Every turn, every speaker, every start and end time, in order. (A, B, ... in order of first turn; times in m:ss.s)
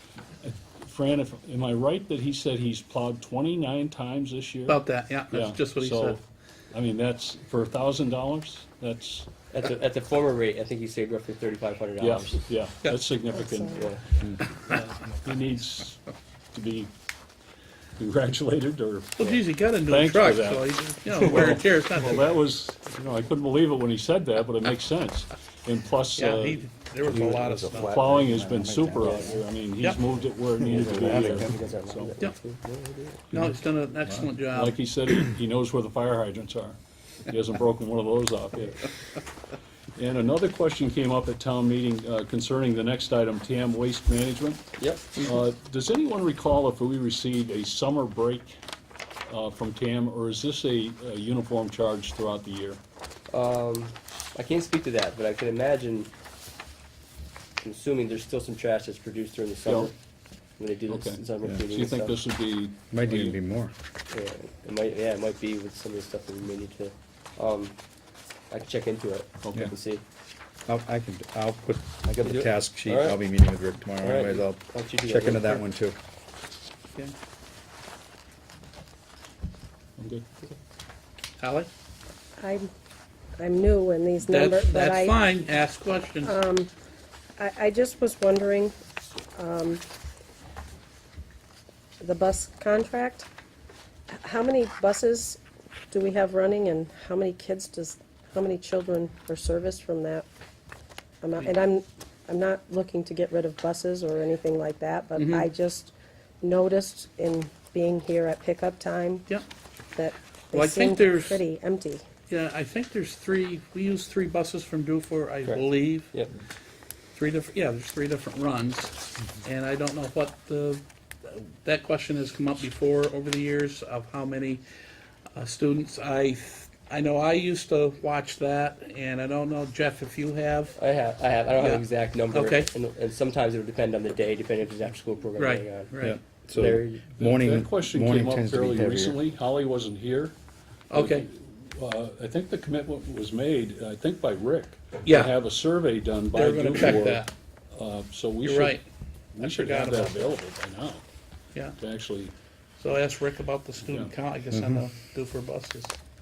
0:00.4-0:09.3 A
0:04.7-0:06.2 B
0:09.5-0:12.4 C
0:12.0-0:14.4 A
0:13.3-0:13.8 D
0:13.8-0:14.1 C
0:15.1-0:16.9 A
0:18.0-0:19.2 A
0:19.2-0:22.2 B
0:19.9-0:26.6 A
0:26.2-0:28.1 B
0:27.0-0:29.4 E
0:27.7-0:32.1 A
0:29.0-0:29.3 C
0:30.6-0:31.6 E
0:30.7-0:33.3 C
0:33.3-0:34.8 B
0:34.1-0:38.9 A
0:39.9-0:48.6 A
0:44.8-0:45.2 C
0:49.2-0:52.8 A
0:53.3-0:56.1 C
0:57.6-0:59.9 C
1:00.6-1:02.2 C
1:00.9-1:03.4 A
1:02.9-1:03.7 E
1:04.1-1:07.8 C
1:08.5-1:10.0 C
1:09.4-1:09.7 A
1:10.7-1:16.0 E
1:12.2-1:13.2 C
1:14.0-1:15.6 C
1:20.0-1:20.2 A
1:21.4-1:21.7 B
1:22.4-1:22.7 D
1:23.4-1:25.2 D
1:24.2-1:26.3 B
1:26.2-1:26.7 D
1:27.4-1:28.8 D
1:29.3-1:29.8 D
1:32.0-1:33.3 D
1:34.1-1:40.2 D
1:41.2-1:49.3 D
1:45.2-1:45.5 B
1:49.9-1:52.0 D
1:50.5-1:51.4 B
1:52.3-1:56.2 B
1:55.4-1:56.3 C
1:57.1-2:04.6 B
2:05.3-2:10.8 B
2:10.8-2:15.9 C
2:11.6-2:12.7 B
2:15.4-2:16.2 B
2:16.0-2:19.2 E
2:16.5-2:17.0 C
2:17.2-2:20.4 A
2:20.9-2:21.3 B
2:20.9-2:28.8 A
2:25.0-2:25.3 B
2:26.3-2:27.3 B
2:28.4-2:28.8 B
2:29.3-2:31.0 A
2:29.4-2:30.4 B
2:31.8-2:32.3 A
2:32.8-2:35.9 B
2:33.8-2:34.1 A
2:34.5-2:34.8 E